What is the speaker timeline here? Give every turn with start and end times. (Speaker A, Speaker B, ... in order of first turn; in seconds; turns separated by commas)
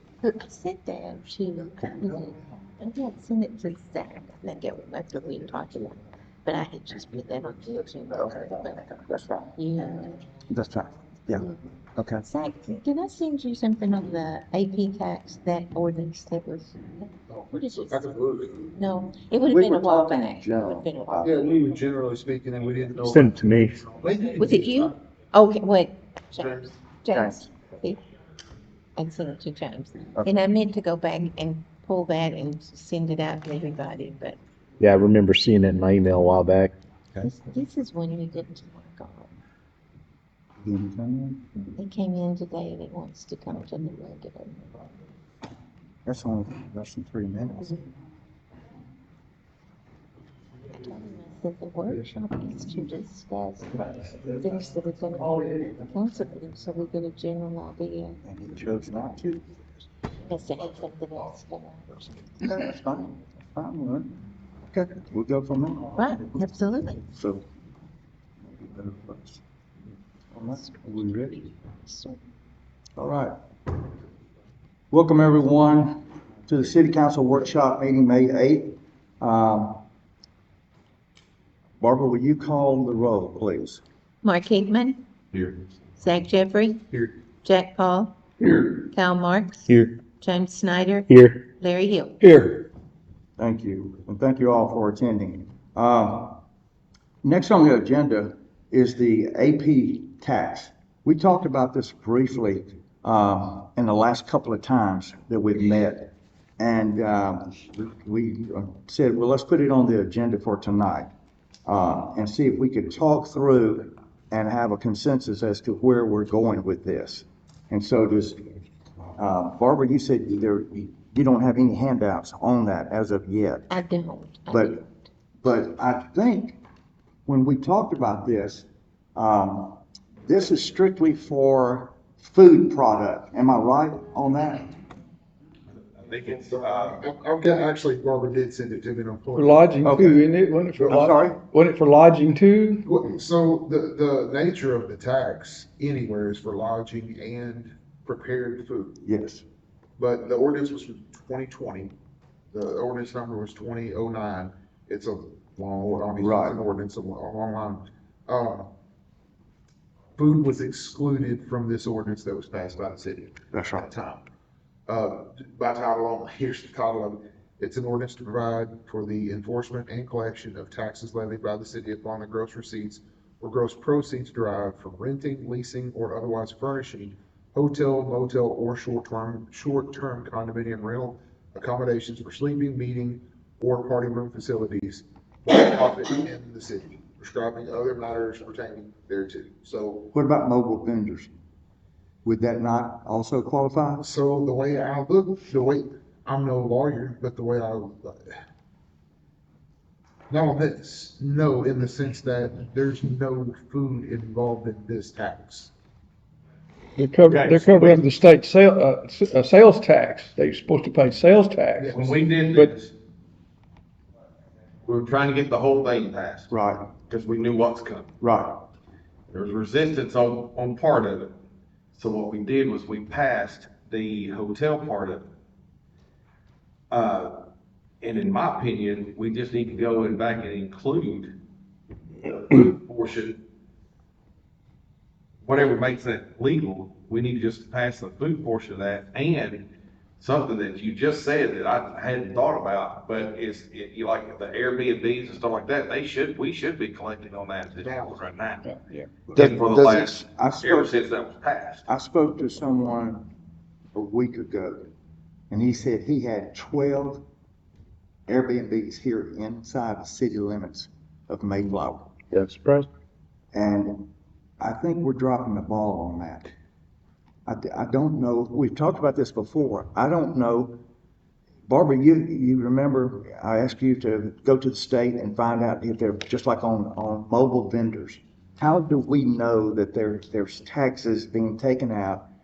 Speaker A: 0.2-10.2, Speaker B: 1.8-2.3, Speaker B: 8.1-9.5, Speaker B: 10.5-12.3, Speaker A: 12.2-18.1, Speaker C: 17.3-18.7, Speaker A: 18.7-21.6, Speaker B: 19.4-21.5, Speaker C: 21.2-24.9, Speaker D: 23.0-23.8, Speaker A: 24.4-28.0, Speaker C: 26.4-26.7, Speaker B: 27.1-27.5, Speaker A: 29.0-34.4, Speaker D: 34.8-36.7, Speaker A: 37.2-39.3, Speaker B: 40.6-41.5, Speaker A: 41.6-44.9, Speaker B: 46.0-47.9, Speaker A: 50.7-58.2, Speaker B: 58.2-59.4, Speaker A: 60.3-62.3, Speaker B: 62.4-64.2, Speaker B: 64.7-66.4, Speaker A: 65.9-67.0, Speaker B: 67.0-67.4, Speaker B: 68.4-69.4, Speaker B: 70.3-71.5, Speaker A: 71.8-72.2, Speaker B: 73.0-73.3, Speaker B: 74.9-79.8, Speaker B: 81.8-83.8, Speaker A: 84.2-85.0, Speaker E: 85.3-85.6, Speaker A: 86.0-86.8, Speaker A: 87.4-88.2, Speaker F: 88.4-88.9, Speaker A: 88.8-92.2, Speaker F: 91.1-91.4, Speaker F: 92.2-92.7, Speaker B: 93.4-96.4, Speaker B: 97.2-111.1, Speaker B: 111.7-118.5, Speaker B: 119.2-123.7, Speaker A: 123.7-124.9, Speaker B: 124.5-124.8, Speaker B: 125.4-126.6, Speaker B: 127.2-134.7, Speaker E: 135.7-137.0, Speaker C: 136.2-140.0, Speaker F: 139.3-142.8, Speaker B: 139.8-140.2, Speaker C: 140.7-141.0, Speaker B: 140.8-141.4, Speaker C: 142.8-148.9, Speaker B: 149.0-149.4, Speaker C: 150.0-151.9, Speaker C: 152.5-158.7, Speaker B: 155.9-156.6, Speaker C: 160.2-164.2, Speaker B: 163.5-163.9, Speaker C: 164.9-190.1, Speaker B: 190.1-191.3, Speaker B: 192.2-194.1, Speaker C: 194.0-198.3, Speaker C: 200.3-205.7, Speaker F: 207.0-212.7, Speaker E: 207.3-207.8, Speaker C: 211.8-212.4, Speaker E: 211.9-212.9, Speaker E: 214.8-216.5, Speaker B: 216.5-216.9, Speaker E: 217.1-218.1, Speaker B: 218.2-218.7, Speaker E: 219.3-221.3, Speaker E: 221.9-225.3, Speaker E: 226.9-227.4, Speaker E: 228.0-231.3, Speaker E: 232.2-233.4, Speaker E: 235.4-248.7, Speaker C: 247.8-248.2, Speaker F: 248.6-249.2, Speaker B: 249.3-250.9, Speaker E: 249.3-251.8, Speaker B: 251.8-253.3, Speaker B: 253.9-254.9, Speaker B: 255.5-257.2, Speaker B: 258.3-262.1, Speaker D: 262.3-262.9, Speaker B: 263.5-264.1, Speaker B: 264.6-266.5, Speaker B: 267.4-270.8, Speaker B: 271.7-282.3